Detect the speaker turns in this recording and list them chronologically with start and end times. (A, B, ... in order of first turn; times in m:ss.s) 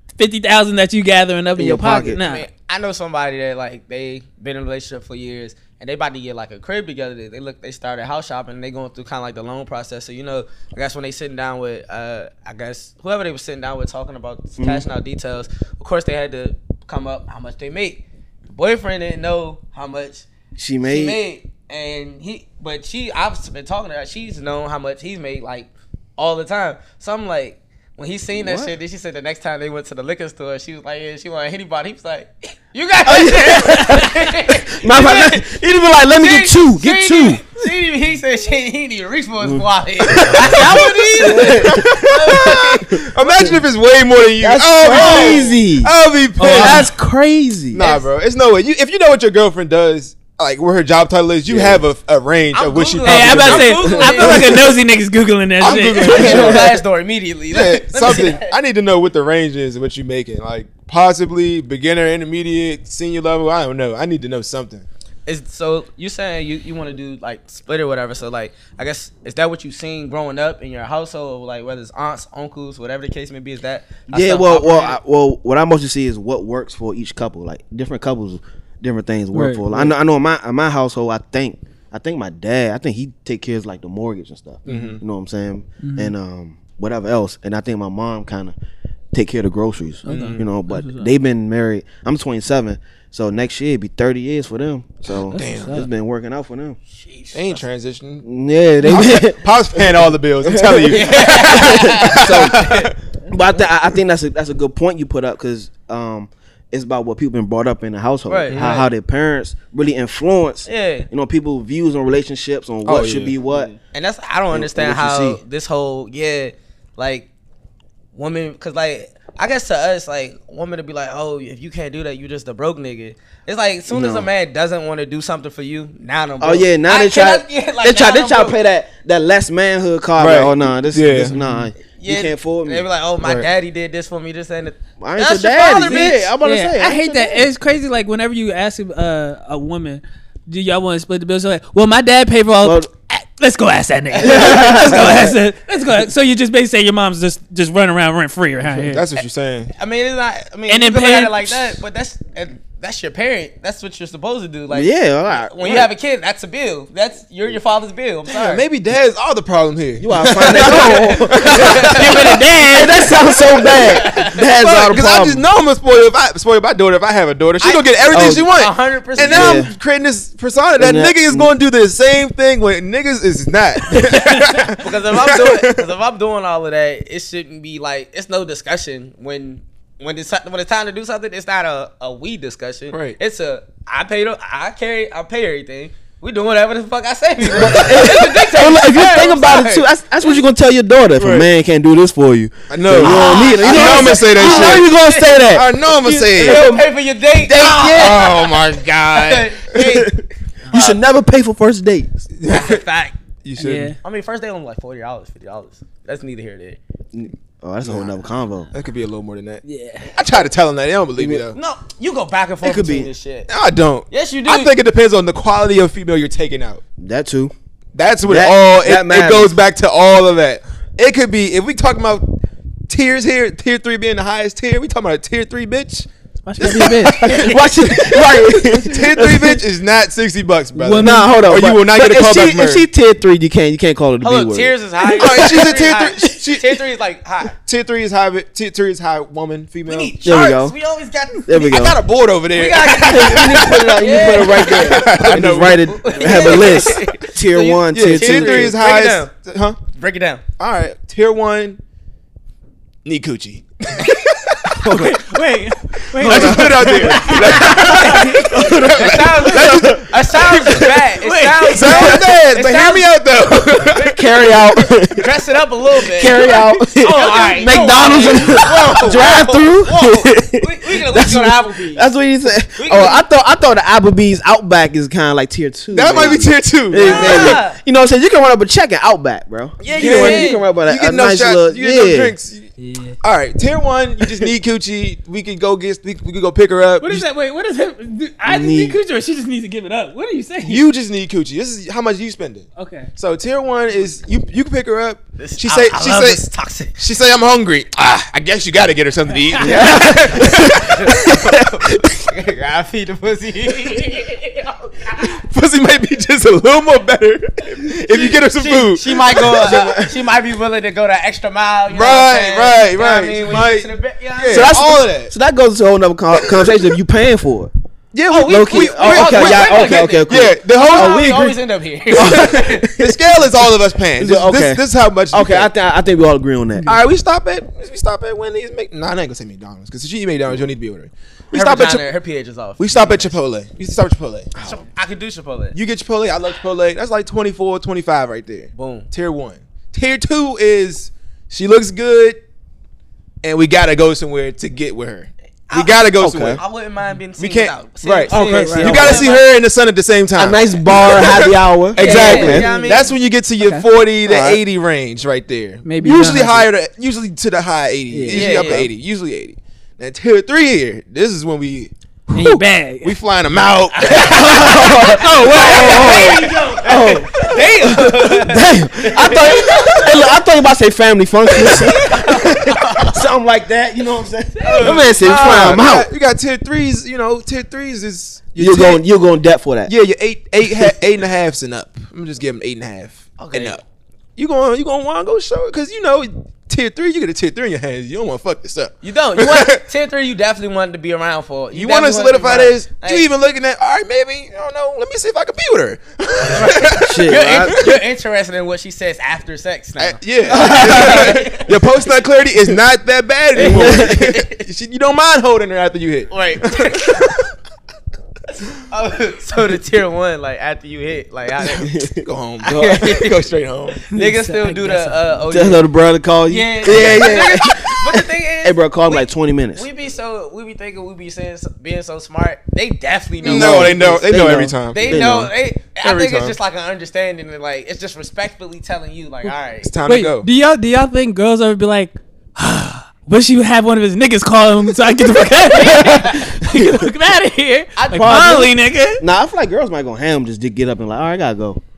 0:00.2-0:02.5 A
0:01.6-0:02.2 B
0:02.2-0:20.3 C
0:14.6-0:14.9 B
0:20.6-0:21.2 B
0:20.8-0:35.5 C
0:28.3-0:28.7 B
0:33.1-0:37.4 B
0:36.1-0:43.0 C
0:39.4-0:43.6 B
0:40.4-0:41.5 A
0:41.4-0:46.9 D
0:44.4-0:47.9 B
0:44.8-0:45.6 C
0:46.4-0:46.9 A
0:47.7-0:54.5 D
0:47.8-0:48.1 C
0:51.5-0:51.8 B
0:52.5-0:54.7 C
0:53.0-0:56.6 A
0:53.9-0:54.4 B
0:55.6-0:56.8 D
0:55.7-0:58.5 C
0:56.2-0:56.7 B
0:57.5-1:04.9 D
1:05.3-1:15.0 C
1:14.1-1:28.6 B
1:19.3-1:19.9 A
1:24.7-1:25.0 D
1:24.7-1:25.0 A
1:25.8-1:26.1 A
1:29.1-1:36.8 B
1:30.0-1:31.1 A
1:30.1-1:30.4 D
1:35.2-1:35.8 D
1:35.3-1:35.9 A
1:37.0-1:37.6 C
1:37.3-1:38.3 D
1:38.2-1:42.8 B
1:38.8-1:43.0 D
1:40.9-1:42.9 C
1:43.3-1:53.7 B
1:48.3-1:48.8 C
1:48.5-1:48.9 D
1:50.7-1:51.1 C
1:52.8-1:53.3 D
1:53.9-1:57.3 C
1:54.5-1:55.4 B
1:58.1-2:08.6 C
2:03.9-2:04.3 B
2:06.4-2:12.9 B
2:10.2-2:11.3 D
2:11.3-2:11.7 A
2:11.9-2:16.3 C
2:13.2-2:13.5 D
2:15.0-2:17.5 B
2:15.9-2:29.0 A
2:22.6-2:22.9 B
2:24.2-2:25.4 B
2:24.2-2:24.7 C
2:28.6-2:29.7 D
2:29.7-2:38.6 C
2:30.7-2:31.7 A
2:34.7-2:35.9 B
2:38.3-2:42.4 D
2:40.0-2:45.4 B
2:40.2-2:44.5 C
2:42.1-2:43.1 A
2:44.5-2:55.9 D
2:47.6-2:49.7 C
2:48.1-2:48.5 B
2:49.2-2:49.7 B
2:50.8-2:51.5 B
2:54.0-3:10.4 C
3:02.9-3:03.2 D
3:07.5-3:15.7 B
3:07.6-3:07.9 D
3:11.2-3:11.5 D
3:12.7-3:16.7 D
3:13.0-3:20.2 C
3:16.3-3:16.9 B
3:17.4-3:18.2 B
3:17.5-3:19.7 D
3:19.8-3:22.3 B
3:20.7-3:21.0 C
3:22.4-3:22.8 D
3:22.5-3:23.2 C
3:23.4-3:24.0 D
3:23.6-3:24.0 A
3:24.0-3:26.8 C
3:27.1-3:28.7 B
3:27.8-3:28.1 D
3:28.7-3:31.6 D
3:29.6-3:30.2 A
3:31.2-3:31.4 B
3:31.5-3:33.5 C
3:32.6-3:33.1 B
3:33.5-3:36.8 D
3:34.1-3:34.7 C
3:37.0-3:37.5 B
3:38.0-3:46.1 D
3:38.2-3:39.5 B
3:46.4-3:47.2 A
3:46.6-3:48.2 D
3:47.0-3:49.6 B
3:47.2-3:47.6 C
3:48.8-3:52.9 D
3:50.8-3:51.4 A
3:51.0-3:55.7 B
3:54.2-3:57.6 C
3:55.1-3:56.8 D
3:57.6-4:00.2 D
3:59.9-4:01.9 C
4:00.2-4:00.8 B
4:01.4-4:02.0 B
4:01.6-4:06.9 D
4:02.5-4:09.3 C
4:02.8-4:08.8 B
4:07.9-4:09.8 D
4:09.9-4:10.4 C
4:10.6-4:11.8 D
4:13.0-4:14.9 D
4:14.8-4:15.2 B
4:14.8-4:18.8 A
4:16.2-4:21.0 D
4:16.2-4:20.0 B
4:17.2-4:23.2 C
4:21.1-4:22.2 A
4:21.7-4:24.2 D
4:23.8-4:24.2 C
4:24.1-4:25.3 B
4:25.1-4:32.1 C
4:26.0-4:42.4 B
4:26.4-4:28.1 A
4:32.8-4:33.2 C
4:35.9-4:37.6 D
4:37.0-4:37.8 C
4:39.8-4:40.6 C
4:39.9-4:42.7 D
4:42.8-4:43.2 A
4:43.2-4:47.3 D
4:47.0-4:50.8 A
4:48.4-4:49.0 B
4:50.6-4:56.4 D
4:52.8-4:53.1 A
4:55.4-4:57.0 C
4:57.0-5:01.3 D
4:59.6-5:01.5 B
4:59.6-5:00.0 A
4:59.6-5:05.4 C
5:05.2-5:09.7 D
5:08.1-5:14.8 C
5:09.4-5:10.2 B
5:11.9-5:15.3 D
5:14.5-5:17.7 B
5:16.3-5:16.8 D
5:18.1-5:21.5 D
5:18.3-5:22.9 C
5:18.3-5:21.5 B
5:22.1-5:27.0 B
5:22.2-5:25.7 D
5:26.9-5:32.1 D
5:31.5-5:33.4 C
5:32.8-5:34.5 D
5:34.6-5:34.8 B
5:34.6-5:35.8 C
5:35.7-5:42.4 D
5:38.7-5:39.1 C
5:43.4-5:46.6 D
5:45.7-5:49.5 C
5:46.2-5:46.6 B
5:47.4-6:04.8 D
5:48.3-5:49.2 A
5:48.3-5:49.2 B
5:50.4-5:52.7 B
5:52.0-5:53.2 C
5:52.0-5:53.0 A
5:53.6-5:53.9 A
5:54.3-5:54.6 B
5:55.8-5:56.7 A
5:58.1-5:58.7 A
5:58.3-5:58.9 C
6:02.3-6:03.2 A
6:03.9-6:10.2 C
6:04.2-6:16.1 B
6:05.0-6:06.9 A
6:11.5-6:13.2 C
6:14.6-6:15.6 C
6:14.8-6:19.0 D
6:18.6-6:19.9 B
6:19.9-6:23.8 D
6:23.4-6:23.8 C
6:24.4-6:29.8 D
6:29.0-6:33.3 C
6:31.7-6:38.0 D
6:36.5-6:41.8 C
6:37.0-6:37.8 B
6:40.0-6:47.4 D
6:40.5-6:41.2 B
6:43.6-6:44.6 C
6:43.6-6:44.2 B
6:46.3-6:47.4 C
6:48.9-6:51.9 C
6:51.8-6:52.2 B
6:52.2-6:54.0 D
6:52.6-6:53.4 C
6:54.1-6:55.8 C
6:54.1-6:55.4 A
6:55.5-6:59.9 B
6:56.5-7:04.2 C
6:56.9-6:57.3 D
7:03.4-7:05.5 B
7:03.4-7:05.2 D
7:04.9-7:09.9 C
7:06.0-7:06.6 D
7:09.8-7:10.5 D
7:10.1-7:19.2 A
7:15.7-7:16.5 C
7:18.0-7:18.6 C
7:18.1-7:21.8 B